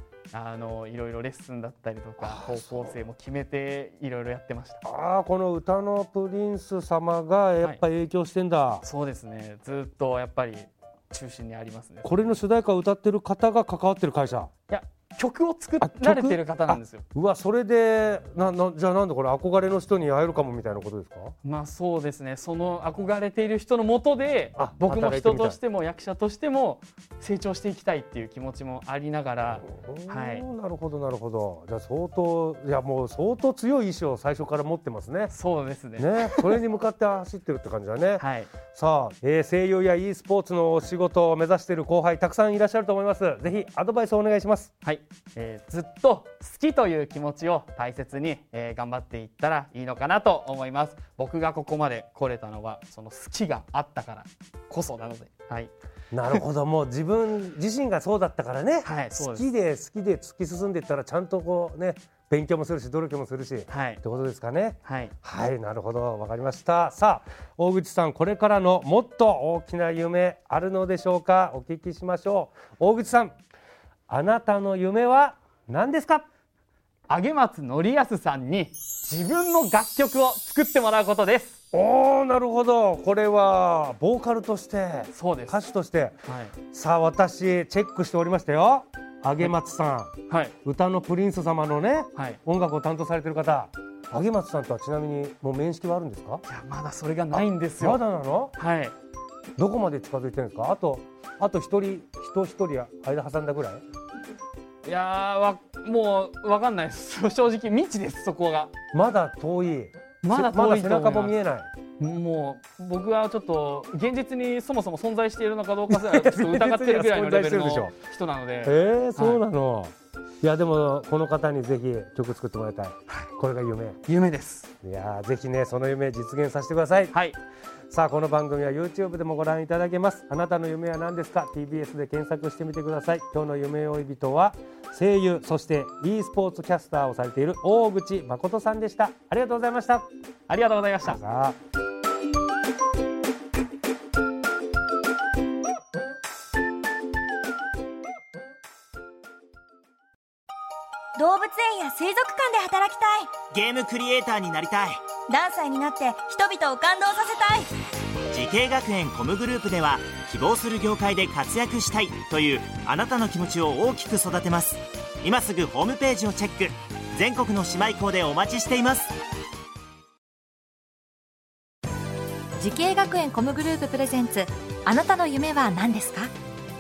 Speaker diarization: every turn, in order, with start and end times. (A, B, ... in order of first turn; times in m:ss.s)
0:00.3-0:04.8 A
0:02.2-0:03.0 B
0:04.8-0:08.8 B
0:08.8-0:12.1 A
0:12.0-0:14.5 B
0:14.7-0:17.0 A
0:15.8-0:21.3 B
0:21.4-0:30.4 A
0:24.6-0:25.6 B
0:29.6-0:35.3 B
0:35.3-0:36.6 A
0:36.0-0:44.7 B
0:38.2-0:38.5 A
0:44.8-0:55.7 A
0:56.1-1:13.3 B
0:58.8-0:59.4 A
1:03.7-1:04.0 A
1:04.8-1:05.1 A
1:14.1-1:16.2 B
1:17.1-1:21.6 A
1:21.7-1:26.2 B
1:25.1-1:25.6 A
1:26.2-1:26.5 A
1:26.7-1:30.1 B
1:30.3-1:30.5 A
1:30.6-1:36.4 B
1:36.4-1:38.0 A
1:37.3-1:38.5 B
1:38.6-1:38.9 A
1:39.6-1:43.8 B
1:44.8-1:48.7 A
1:48.9-1:51.7 B
1:50.2-1:51.4 A
1:52.0-1:59.4 A
1:55.9-1:57.9 B
1:58.6-2:04.0 B
2:04.0-2:04.7 A
2:04.8-2:07.1 B
2:07.1-2:07.4 A
2:07.9-2:20.1 B
2:20.5-2:21.2 A
2:21.0-2:21.6 B
2:31.2-2:33.3 C
2:33.5-2:35.0 D
2:35.3-2:37.7 C
2:38.3-2:49.1 D
2:52.6-2:56.3 E